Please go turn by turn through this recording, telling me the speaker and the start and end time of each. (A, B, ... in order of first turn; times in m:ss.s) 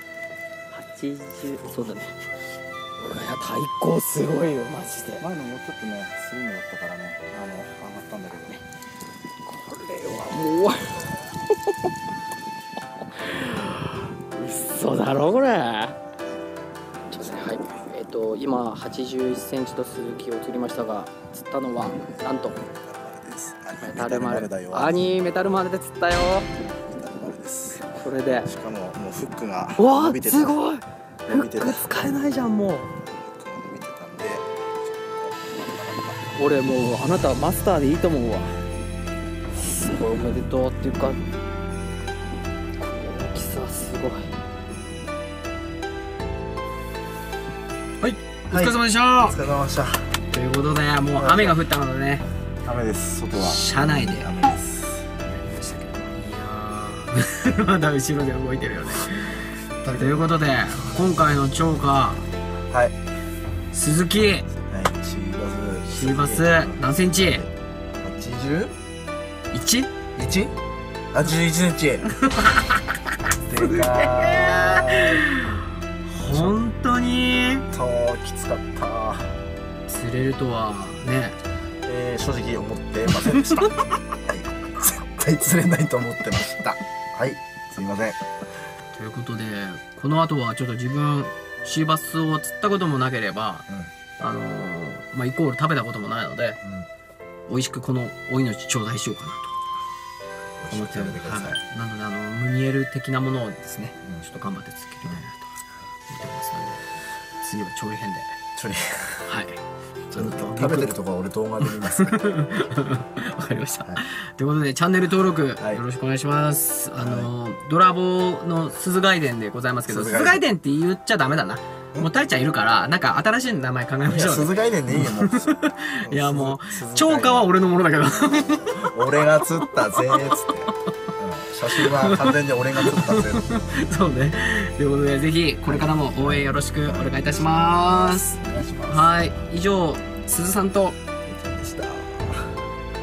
0:00.7-0:02.1 A
0:03.0-0:05.2 A
0:05.2-0:08.6 B
0:09.4-0:11.8 A
0:13.0-0:16.0 A
0:17.1-0:22.6 A
0:17.2-0:17.7 B
0:22.7-0:25.5 B
0:23.8-0:26.5 A
0:26.5-0:27.8 B
0:27.8-0:28.5 A
0:28.4-0:30.6 B
0:29.8-0:32.9 A
0:31.3-0:31.9 B
0:33.0-0:36.2 B
0:36.4-0:38.5 A
0:39.5-0:41.2 A
0:42.8-0:44.3 A
0:48.0-0:49.4 A
0:48.5-0:50.1 B
0:50.3-0:52.2 A
0:51.1-0:51.6 B
0:52.6-0:55.1 B
0:53.4-0:54.3 A
0:55.3-1:02.2 A
0:59.8-1:00.3 B
1:02.7-1:02.9 B
1:03.7-1:04.5 A
1:04.7-1:07.5 B
1:05.9-1:07.4 A
1:08.0-1:08.7 B
1:09.5-1:09.9 A
1:10.2-1:10.5 B
1:11.1-1:12.0 B
1:12.2-1:12.8 A
1:13.4-1:15.3 B
1:13.6-1:17.6 A
1:16.2-1:16.6 B
1:17.7-1:19.3 B
1:19.9-1:21.4 A
1:21.8-1:28.2 B
1:23.2-1:23.4 A
1:28.9-1:33.6 A
1:34.2-1:36.6 A
1:36.6-1:36.9 B
1:37.5-1:39.5 A
1:40.6-1:41.6 B
1:40.7-1:45.5 A
1:46.1-1:48.3 A
1:48.6-1:49.3 B
1:49.3-1:49.6 A
1:50.1-1:52.2 B
1:50.1-1:51.0 A
1:51.6-2:10.7 A
1:55.6-1:55.8 B
1:57.0-1:57.3 B
1:59.9-2:00.4 B
2:04.0-2:07.6 B
2:08.1-2:13.5 B
2:11.7-2:18.3 A
2:15.6-2:19.1 B
2:18.9-2:21.0 A
2:21.2-2:22.6 B